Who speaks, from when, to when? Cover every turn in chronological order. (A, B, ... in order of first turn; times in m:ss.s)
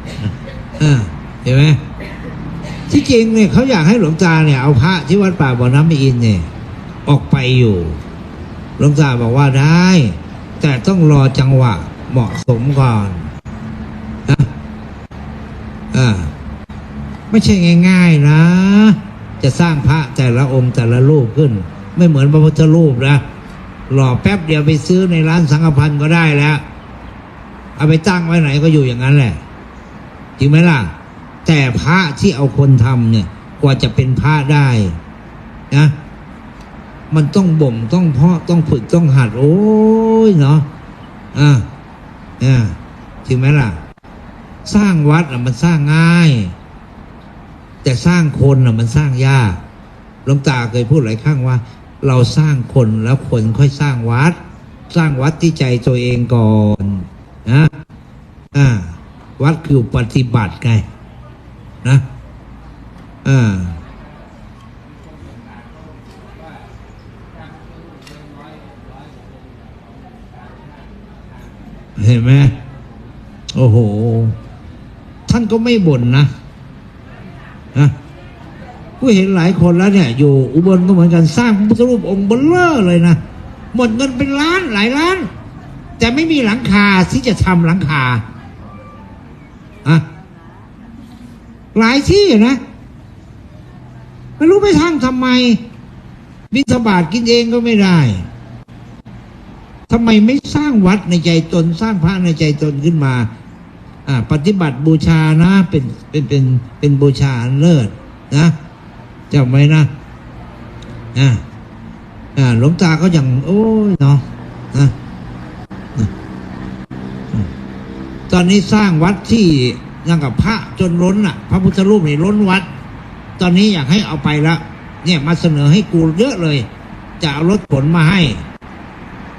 0:00.8-0:01.8 A
0:02.9-0:06.5 A
0:07.0-0:08.0 A
0:08.8-0:13.3 A
0:15.9-0:16.3 A
0:17.3-0:23.2 A
0:23.9-0:26.6 A
0:27.8-0:29.4 A
0:30.4-0:30.9 A
0:31.4-0:35.0 A
0:37.1-0:40.7 A
0:41.3-0:41.7 A
0:42.4-0:43.8 A
0:44.6-0:46.5 A
0:47.8-0:49.6 A
0:50.2-0:54.4 A
0:54.9-0:57.7 A
0:58.5-1:00.8 A
1:03.2-1:03.8 A
1:12.0-1:12.6 A
1:13.5-1:14.4 A
1:15.3-1:16.3 A
1:19.0-1:23.2 A
1:23.7-1:25.3 A
1:26.0-1:28.2 A
1:31.7-1:32.6 A
1:34.4-1:35.6 A
1:36.5-1:38.2 A
1:39.9-1:43.3 A
1:44.0-1:48.5 A
1:49.3-1:49.9 A
1:51.1-1:51.4 A
1:52.4-1:54.9 A
1:58.3-2:02.7 A
2:03.4-2:06.7 A
2:07.2-2:08.4 A